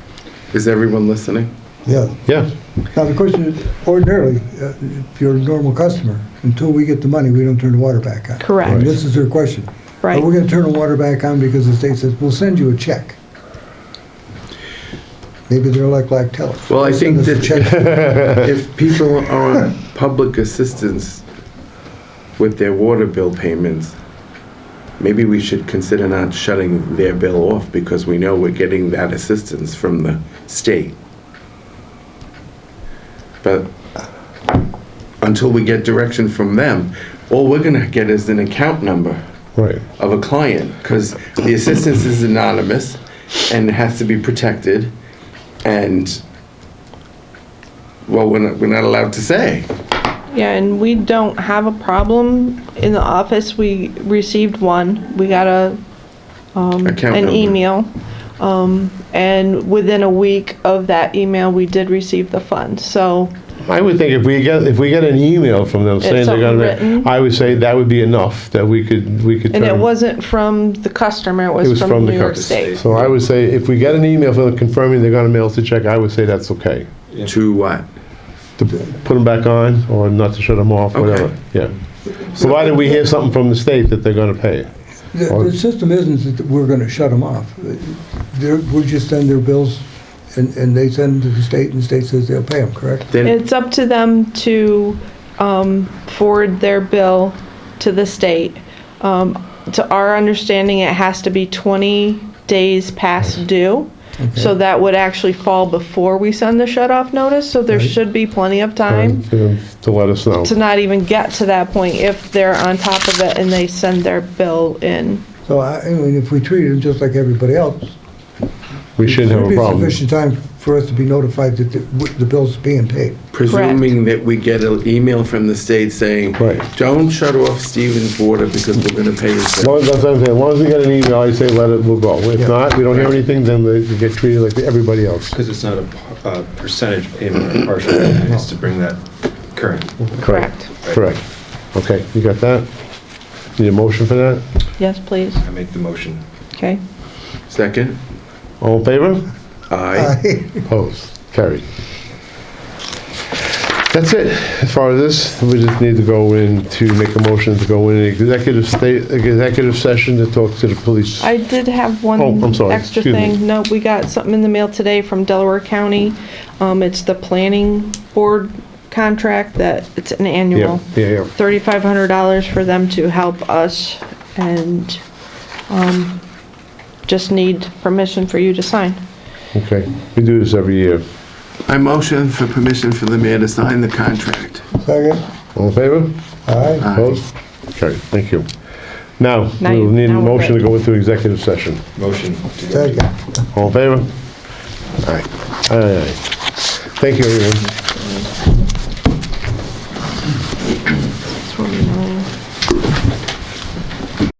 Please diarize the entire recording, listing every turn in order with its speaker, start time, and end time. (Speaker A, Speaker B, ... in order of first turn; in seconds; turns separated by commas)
Speaker A: 0.5-1.5, Speaker B: 1.9-2.2, Speaker C: 2.3-2.5, Speaker B: 2.9-13.2, Speaker D: 8.4-8.9, Speaker B: 15.5-18.4, Speaker A: 16.7-21.2, Speaker C: 17.9-18.4, Speaker A: 22.4-23.9, Speaker A: 25.0-31.0, Speaker A: 33.4-33.7, Speaker A: 35.2-39.2, Speaker C: 39.6-39.9, Speaker A: 40.0-44.9, Speaker A: 45.6-46.2, Speaker A: 48.1-49.7, Speaker D: 50.3-55.8, Speaker D: 56.5-63.3, Speaker A: 56.9-57.6, Speaker C: 63.6-69.9, Speaker D: 66.0-67.1, Speaker D: 69.5-72.8, Speaker C: 71.6-76.9, Speaker E: 72.5-73.1, Speaker A: 77.2-77.8, Speaker C: 78.6-81.8, Speaker A: 80.9-81.3, Speaker B: 82.2-83.0, Speaker C: 82.4-84.7, Speaker B: 85.1-93.1, Speaker A: 93.1-93.4, Speaker D: 93.2-109.3, Speaker B: 104.2-104.5, Speaker C: 108.9-110.5, Speaker D: 110.4-115.2, Speaker B: 115.5-117.9, Speaker C: 119.0-120.0, Speaker B: 119.0-123.2, Speaker A: 123.3-129.8, Speaker D: 123.5-123.9, Speaker C: 126.4-126.6, Speaker C: 129.6-135.4, Speaker E: 135.3-140.2, Speaker D: 140.2-140.7, Speaker C: 140.2-141.2, Speaker E: 140.8-141.1, Speaker C: 141.7-142.7, Speaker C: 143.6-144.4, Speaker D: 144.8-145.4, Speaker E: 145.4-146.2, Speaker D: 146.5-146.8, Speaker A: 147.5-148.0, Speaker C: 148.6-149.3, Speaker A: 149.7-150.2, Speaker B: 149.9-150.6, Speaker C: 150.7-151.7, Speaker C: 153.9-161.3, Speaker D: 161.2-175.0, Speaker C: 162.2-163.4, Speaker C: 170.5-171.3, Speaker D: 175.7-176.2, Speaker D: 177.1-179.0, Speaker C: 179.5-181.0, Speaker A: 181.7-184.7, Speaker B: 184.8-185.2, Speaker C: 185.6-186.2, Speaker B: 186.5-186.9, Speaker A: 186.8-187.2, Speaker C: 186.9-188.5, Speaker C: 189.2-191.8, Speaker D: 189.6-190.7, Speaker E: 192.0-192.8, Speaker B: 192.7-193.4, Speaker C: 193.5-194.1, Speaker C: 195.0-197.7, Speaker D: 198.0-198.3, Speaker D: 201.3-202.3